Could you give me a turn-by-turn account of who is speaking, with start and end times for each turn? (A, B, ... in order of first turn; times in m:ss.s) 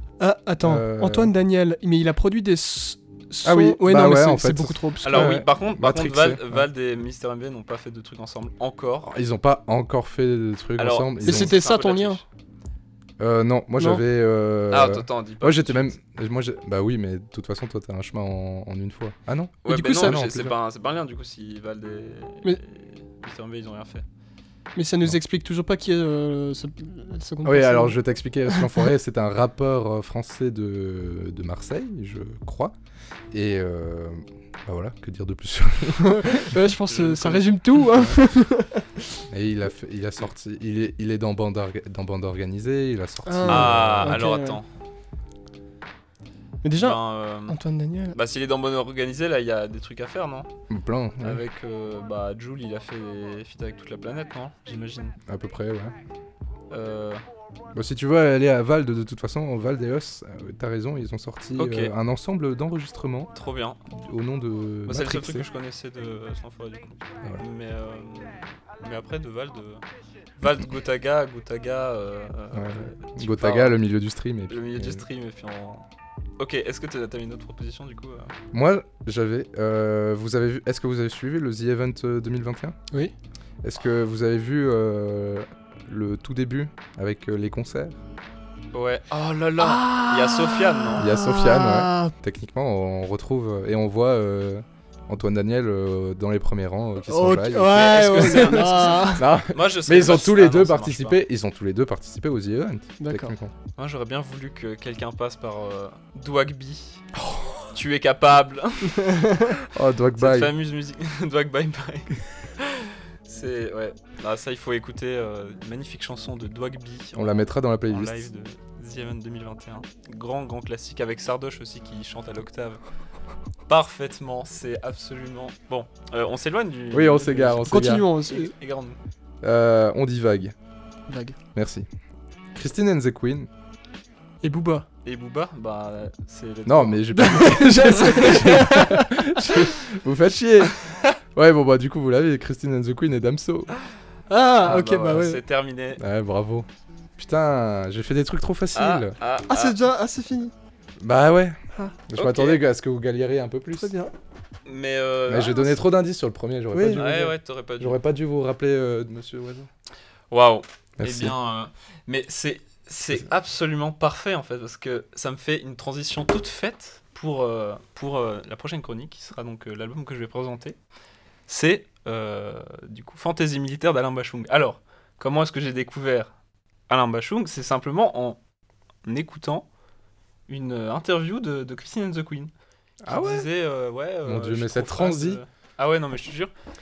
0:00.2-0:05.4 A
0:00.6-0:01.3 B
0:03.4-0:06.6 B
0:05.0-0:09.1 C
0:09.0-0:11.5 B
0:10.8-0:12.2 C
0:11.2-0:12.2 A
0:13.2-0:20.6 B
0:14.7-0:15.9 C
0:19.6-0:24.0 C
0:19.7-0:20.2 A
0:24.8-0:28.8 A
0:27.4-0:32.7 B
0:33.3-0:36.5 B
0:36.0-0:38.9 A
0:36.9-0:37.9 C
0:39.3-0:44.2 B
0:43.2-0:44.6 A
0:43.5-0:44.7 C
0:46.6-0:48.2 A
0:46.8-0:47.6 C
0:48.1-0:50.5 C
0:50.7-0:51.4 B
0:51.2-0:55.2 C
0:55.3-0:55.9 B
0:56.7-0:57.2 C
0:57.7-1:03.3 B
1:01.6-1:01.9 C
1:03.3-1:03.8 C
1:03.9-1:05.4 B
1:04.8-1:09.8 C
1:10.4-1:13.8 C
1:12.5-1:15.0 B
1:14.5-1:15.8 C
1:16.4-1:18.3 C
1:18.5-1:22.8 B
1:23.6-1:28.0 B
1:28.7-1:31.1 C
1:29.6-1:32.1 A
1:31.0-1:43.5 B
1:37.1-1:39.2 A
1:37.7-1:41.2 C
1:43.0-1:43.3 A
1:43.8-1:47.0 C
1:47.1-1:47.6 B
1:47.7-1:49.6 C
1:49.0-1:49.5 A
1:49.7-1:50.5 B
1:50.2-2:02.8 C
1:57.1-1:58.3 B
2:03.7-2:09.0 C
2:06.9-2:08.1 B
2:07.7-2:08.5 A
2:09.4-2:10.5 B
2:11.1-2:11.4 A
2:11.5-2:11.9 B
2:12.5-2:13.5 B
2:14.4-2:14.8 A
2:15.0-2:18.5 C
2:16.6-2:20.7 B
2:17.1-2:19.4 A
2:21.3-2:23.7 B
2:24.3-2:25.4 A
2:24.6-2:26.0 C
2:26.0-2:26.7 B
2:27.2-2:29.2 B
2:28.7-2:29.8 C
2:29.5-2:30.5 A
2:31.0-2:33.9 B
2:32.2-2:32.6 C
2:33.8-2:34.1 A
2:34.6-2:35.7 C
2:35.3-2:39.7 B
2:36.7-2:37.3 A
2:36.9-2:38.0 C
2:40.3-2:50.8 C
2:41.0-2:41.3 B
2:51.5-2:56.3 C
2:56.9-2:58.4 C
2:59.0-2:59.7 C
3:00.5-3:02.5 C
3:03.0-3:03.5 B
3:03.1-3:06.5 C
3:04.2-3:05.4 B